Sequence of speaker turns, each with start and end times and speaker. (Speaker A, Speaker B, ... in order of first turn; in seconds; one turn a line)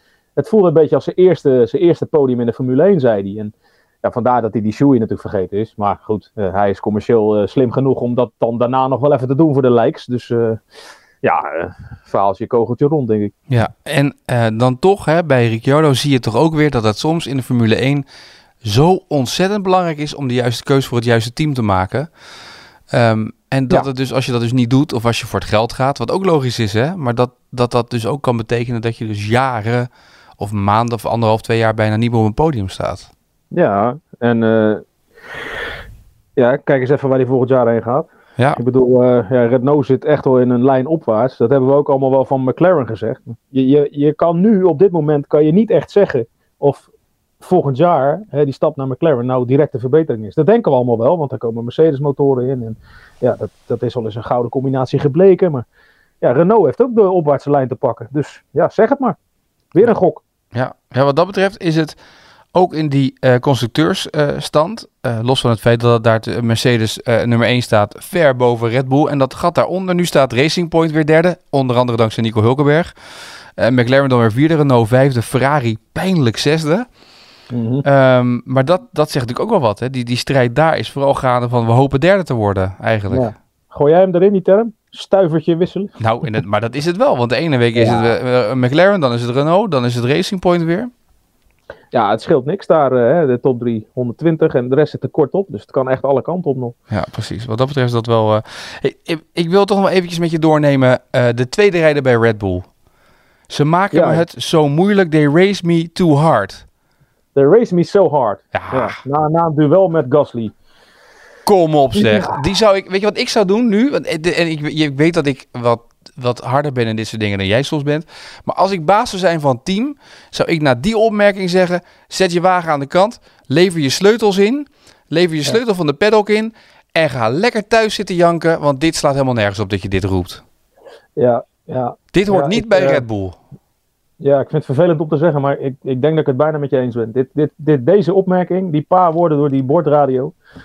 Speaker A: 0.4-10.6
Speaker A: 11.2-13.3
Speaker B: 13.5-18.0
Speaker B: 18.6-22.1
Speaker B: 22.9-33.1
Speaker A: 33.5-34.8
Speaker A: 36.4-46.9
Speaker A: 47.4-55.6
Speaker A: 56.2-59.2
Speaker A: 59.7-60.2
Speaker B: 60.5-62.0
Speaker B: 62.5-72.9
Speaker B: 73.5-76.9
Speaker A: 77.5-77.8
Speaker B: 77.8-83.3
Speaker A: 83.1-85.9
Speaker B: 86.0-90.9
Speaker A: 87.7-88.1
Speaker A: 91.9-96.7
Speaker B: 96.9-102.7
Speaker B: 103.5-106.6
Speaker A: 103.9-104.2
Speaker A: 107.3-110.5
Speaker B: 108.5-109.0
Speaker B: 111.5-130.4
Speaker A: 111.9-112.4
Speaker A: 131.2-133.0
Speaker B: 132.1-133.4
Speaker A: 134.2-140.3